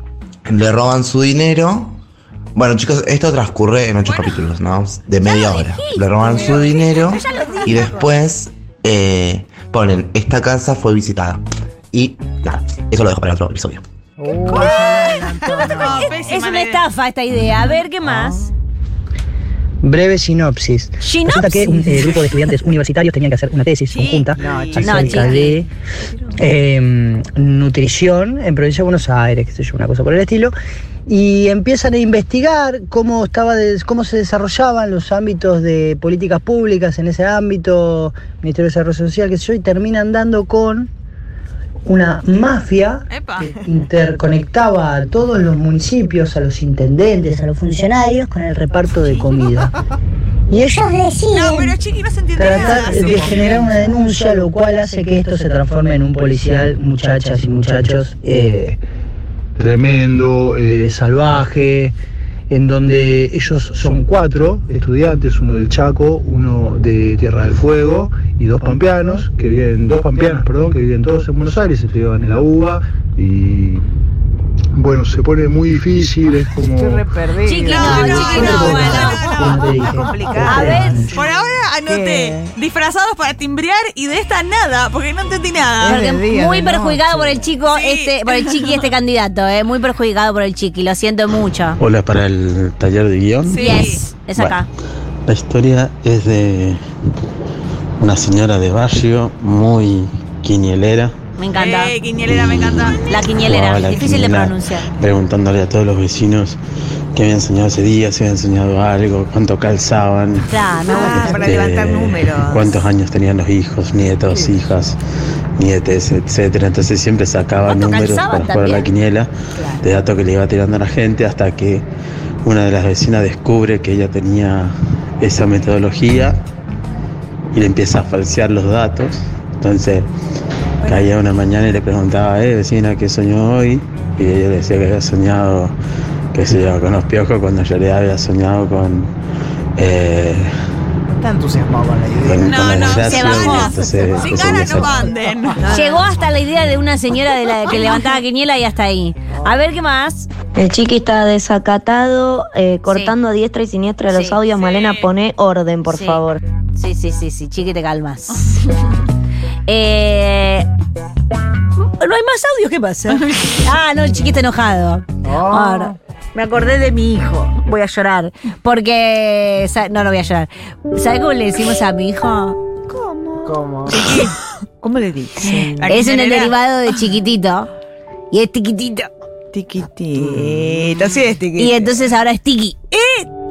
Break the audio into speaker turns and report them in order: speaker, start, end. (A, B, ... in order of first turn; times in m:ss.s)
0:00.5-0:02.0 A
0:02.5-0:13.8 A
0:04.0-0:04.4 B
0:05.2-0:07.9 C
0:06.3-0:07.9 B
0:14.2-0:16.2 D
0:14.5-0:16.8 B
0:15.8-0:18.5 C
0:18.1-0:18.3 D
0:19.8-0:25.7 E
0:21.0-0:21.8 C
0:23.9-0:25.4 B
0:24.4-0:25.3 D
0:24.8-0:25.6 C
0:26.4-0:30.5 E
0:31.1-0:40.9 E
0:41.8-0:49.7 E
0:43.1-0:43.6 B
0:50.5-0:51.2 E
0:51.3-0:53.8 B
0:52.4-0:58.8 E
0:52.9-0:53.2 D
0:59.6-1:02.0 E
1:02.5-1:13.8 E
1:14.7-1:17.0 E
1:16.6-1:19.2 D
1:17.4-1:19.2 C
1:17.7-1:19.8 B
1:18.0-1:21.2 E
1:20.1-1:20.7 F
1:20.5-1:21.0 C
1:21.0-1:26.0 B
1:25.8-1:27.5 D
1:25.8-1:31.8 C
1:27.6-1:28.8 B
1:31.8-1:33.7 G
1:33.5-1:34.0 B
1:33.5-1:34.7 C
1:35.3-1:36.8 G
1:38.0-1:41.1 G
1:41.4-1:42.0 C
1:41.5-1:43.2 B
1:42.3-1:42.8 G
1:42.9-1:44.9 C
1:43.4-1:46.6 G
1:47.1-1:50.5 G
1:50.5-1:51.5 C
1:50.9-1:52.8 F
1:51.4-1:55.0 G
1:55.6-2:01.8 G
1:57.7-1:58.9 C
2:02.4-2:06.4 G
2:07.5-2:10.1 G
2:10.8-2:15.7 G
2:16.3-2:19.1 G
2:19.8-2:20.5 G
2:21.2-2:23.1 D
2:22.2-2:25.0 G
2:22.4-2:25.6 B
2:23.1-2:23.8 C
2:25.7-2:30.3 C
2:30.5-2:36.4 H
2:34.1-2:34.4 C
2:34.4-2:35.1 B
2:35.9-2:36.2 C
2:36.8-2:38.5 C
2:39.7-2:40.7 C
2:41.8-2:52.6 C
2:45.2-2:46.0 D
2:52.9-2:54.3 F
2:53.4-2:54.2 D
2:54.8-2:56.2 F
2:55.8-2:56.5 B
2:55.9-2:57.7 C
2:58.3-2:59.1 C
2:59.5-3:01.9 F
3:01.6-3:02.8 C
3:02.9-3:03.2 F